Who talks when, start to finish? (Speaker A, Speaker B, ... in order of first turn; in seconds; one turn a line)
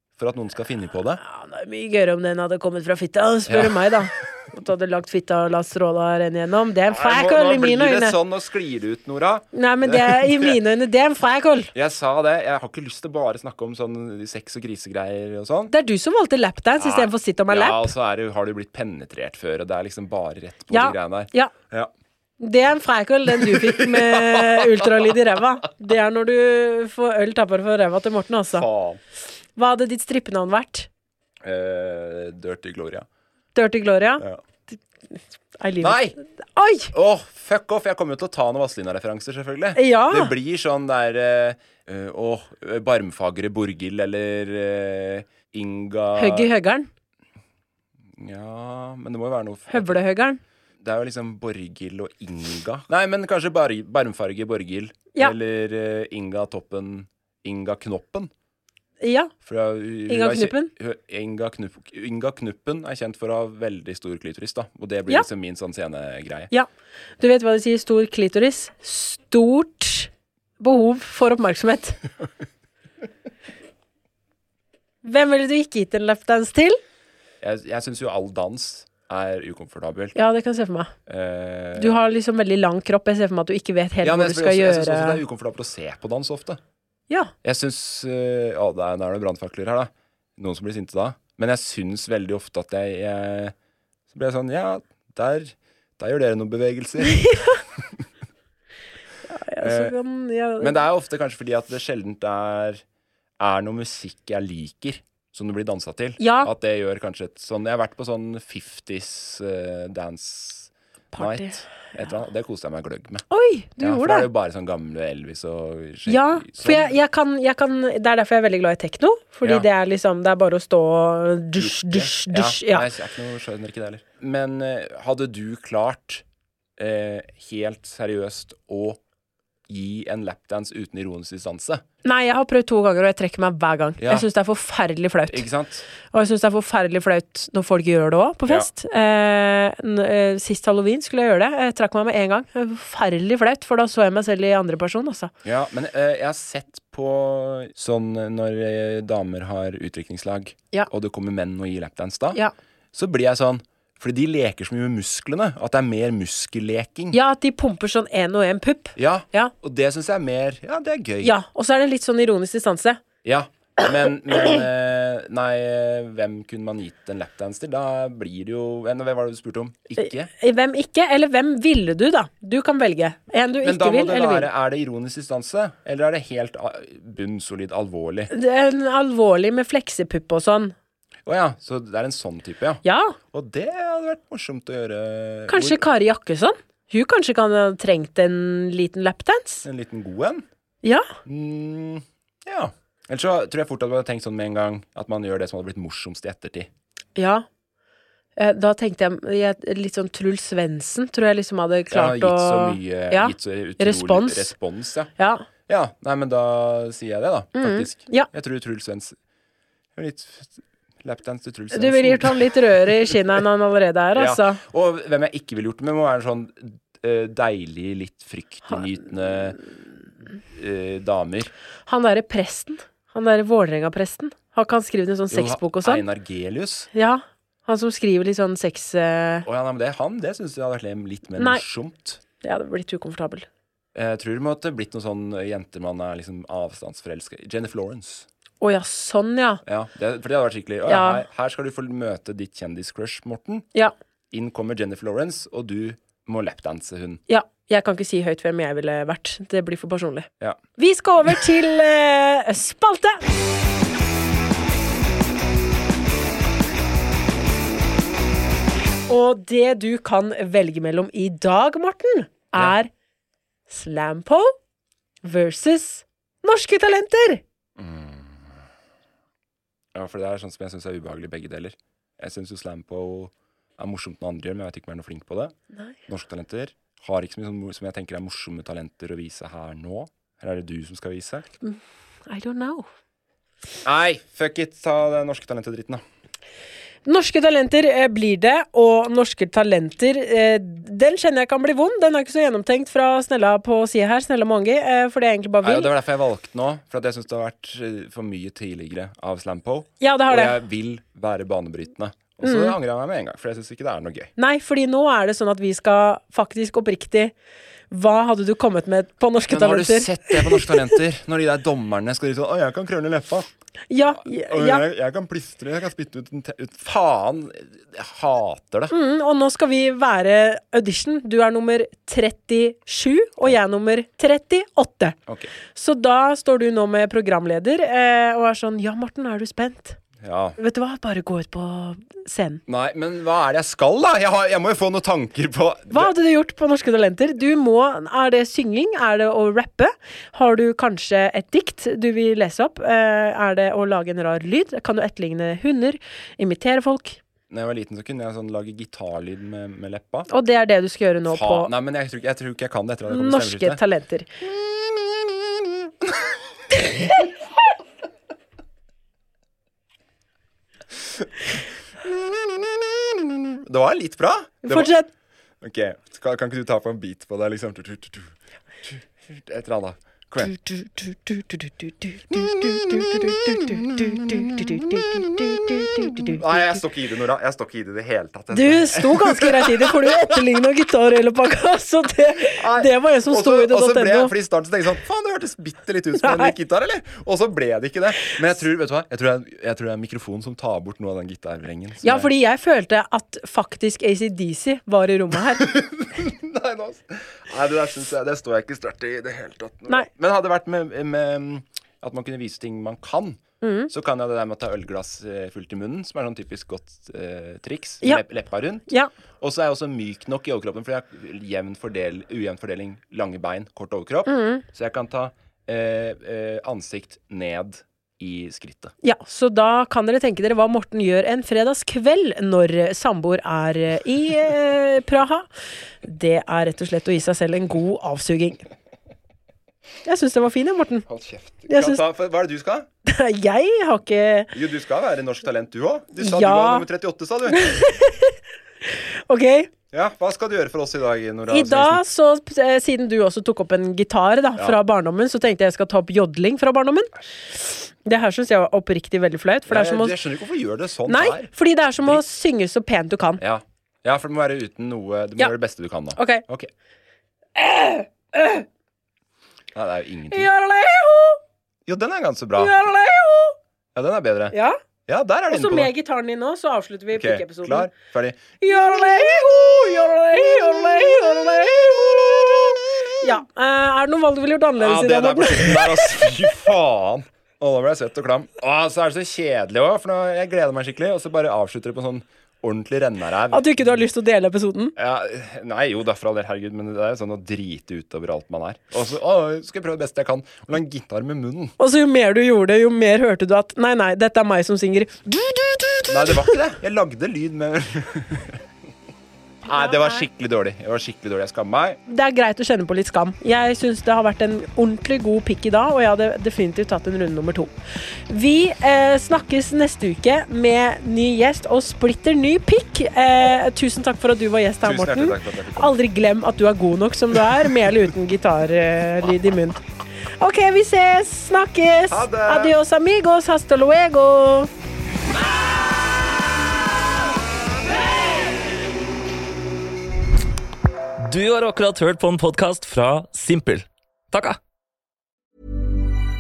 Speaker A: 0.2-1.2
Speaker B: 1.2-8.1
Speaker A: 3.5-4.2
Speaker A: 6.9-10.6
Speaker B: 9.5-11.7
Speaker A: 11.7-15.7
Speaker B: 15.7-17.9
Speaker A: 16.8-21.9
Speaker B: 20.7-21.5
Speaker B: 22.4-28.6
Speaker A: 23.4-25.2
Speaker A: 28.5-29.0
Speaker B: 29.6-30.9
Speaker A: 31.4-33.0
Speaker B: 33.5-34.8
Speaker B: 35.6-36.9
Speaker A: 35.8-36.1
Speaker A: 36.9-46.5
Speaker B: 39.8-40.3
Speaker B: 46.1-46.9
Speaker A: 48.2-50.0
Speaker B: 49.7-50.4
Speaker A: 50.8-58.3
Speaker B: 59.0-59.3
Speaker A: 59.4-66.5
Speaker B: 60.1-60.7
Speaker B: 67.2-72.0
Speaker B: 75.0-76.8
Speaker A: 77.4-80.2
Speaker B: 80.1-80.9
Speaker A: 81.1-82.0
Speaker B: 81.8-85.2
Speaker A: 84.0-86.6
Speaker A: 87.4-93.5
Speaker A: 94.1-97.3
Speaker B: 97.2-97.5
Speaker B: 99.3-100.7
Speaker A: 99.6-99.9
Speaker A: 100.6-102.8
Speaker A: 103.4-113.2
Speaker B: 106.2-106.5
Speaker B: 111.1-111.5
Speaker B: 113.3-114.3
Speaker A: 113.8-116.9
Speaker B: 116.1-122.8
Speaker A: 121.6-126.2
Speaker A: 126.8-129.0
Speaker A: 129.7-131.8
Speaker B: 132.0-135.4
Speaker A: 134.0-134.2
Speaker A: 135.3-135.8
Speaker B: 136.1-145.3
Speaker A: 145.4-152.4
Speaker A: 152.9-157.2
Speaker B: 157.1-159.5
Speaker A: 158.9-161.3
Speaker B: 161.2-163.0
Speaker A: 163.2-170.3
Speaker B: 170.0-174.5
Speaker A: 173.6-178.3
Speaker B: 178.3-180.7
Speaker A: 181.2-185.8
Speaker B: 182.8-183.2
Speaker B: 185.5-189.7
Speaker A: 189.6-190.4
Speaker B: 190.8-191.1
Speaker A: 191.2-196.7
Speaker B: 197.2-197.4
Speaker B: 198.4-204.5
Speaker A: 201.9-205.1
Speaker B: 205.2-205.4
Speaker A: 205.7-209.1
Speaker B: 207.6-208.3
Speaker A: 209.9-213.1
Speaker B: 211.7-214.6
Speaker A: 214.2-219.6
Speaker A: 220.5-221.5
Speaker B: 221.9-226.0
Speaker A: 225.3-226.9
Speaker B: 226.9-229.4
Speaker A: 229.4-232.2
Speaker B: 231.4-231.6
Speaker B: 232.4-233.4
Speaker A: 233.9-238.2
Speaker B: 238.6-239.6
Speaker A: 239.7-243.7
Speaker B: 240.9-241.2
Speaker A: 244.3-247.2
Speaker B: 247.3-253.2
Speaker B: 259.1-262.9
Speaker B: 263.7-264.5
Speaker B: 265.2-267.4
Speaker A: 267.8-268.5
Speaker A: 269.9-275.5
Speaker A: 276.1-281.4
Speaker B: 281.6-282.9
Speaker A: 283.8-286.0
Speaker B: 287.0-295.9
Speaker A: 295.6-304.3
Speaker B: 300.0-300.5
Speaker B: 302.4-302.8
Speaker B: 304.4-307.3
Speaker B: 307.9-310.7
Speaker A: 309.5-313.5
Speaker B: 313.9-314.8
Speaker A: 314.1-318.9
Speaker B: 318.9-325.1
Speaker B: 325.7-330.0
Speaker A: 330.2-330.6
Speaker B: 330.6-332.6
Speaker A: 332.7-336.1
Speaker B: 335.9-347.2
Speaker A: 347.5-350.3
Speaker B: 350.3-351.7
Speaker A: 351.3-353.8
Speaker B: 353.1-354.3
Speaker A: 361.2-364.9
Speaker B: 364.6-365.1
Speaker A: 365.6-368.3
Speaker A: 368.9-370.6
Speaker B: 370.7-371.4
Speaker B: 372.3-376.6
Speaker A: 372.3-380.2
Speaker B: 378.5-384.3
Speaker A: 382.5-392.3
Speaker B: 386.2-386.5
Speaker B: 392.0-395.7
Speaker A: 395.6-408.9
Speaker B: 403.6-403.9
Speaker A: 409.4-418.9
Speaker B: 414.2-414.6
Speaker B: 419.0-425.5
Speaker B: 426.0-428.6
Speaker B: 430.0-431.1
Speaker A: 431.1-432.9
Speaker B: 431.7-432.0
Speaker B: 433.0-434.5
Speaker A: 434.5-437.6
Speaker B: 436.2-436.8
Speaker B: 437.5-439.7
Speaker A: 439.9-442.0
Speaker B: 441.5-450.1
Speaker A: 449.7-452.2
Speaker B: 451.1-453.4
Speaker A: 453.4-456.7
Speaker B: 456.1-456.4
Speaker B: 457.6-458.6
Speaker A: 459.7-460.5
Speaker B: 460.3-461.4
Speaker A: 461.9-462.8
Speaker B: 462.6-463.6
Speaker A: 463.9-464.6
Speaker B: 464.5-464.8
Speaker A: 465.1-465.9
Speaker B: 465.5-467.9
Speaker A: 467.1-468.4
Speaker B: 468.6-476.2
Speaker A: 474.8-484.0
Speaker B: 483.5-484.9
Speaker A: 484.9-491.7
Speaker B: 491.8-496.5
Speaker A: 496.1-498.6
Speaker A: 499.6-502.0
Speaker B: 499.7-500.2
Speaker B: 502.1-507.7
Speaker B: 508.3-519.8
Speaker A: 514.8-515.9
Speaker B: 520.4-524.7
Speaker A: 522.1-522.7
Speaker C: 531.2-534.6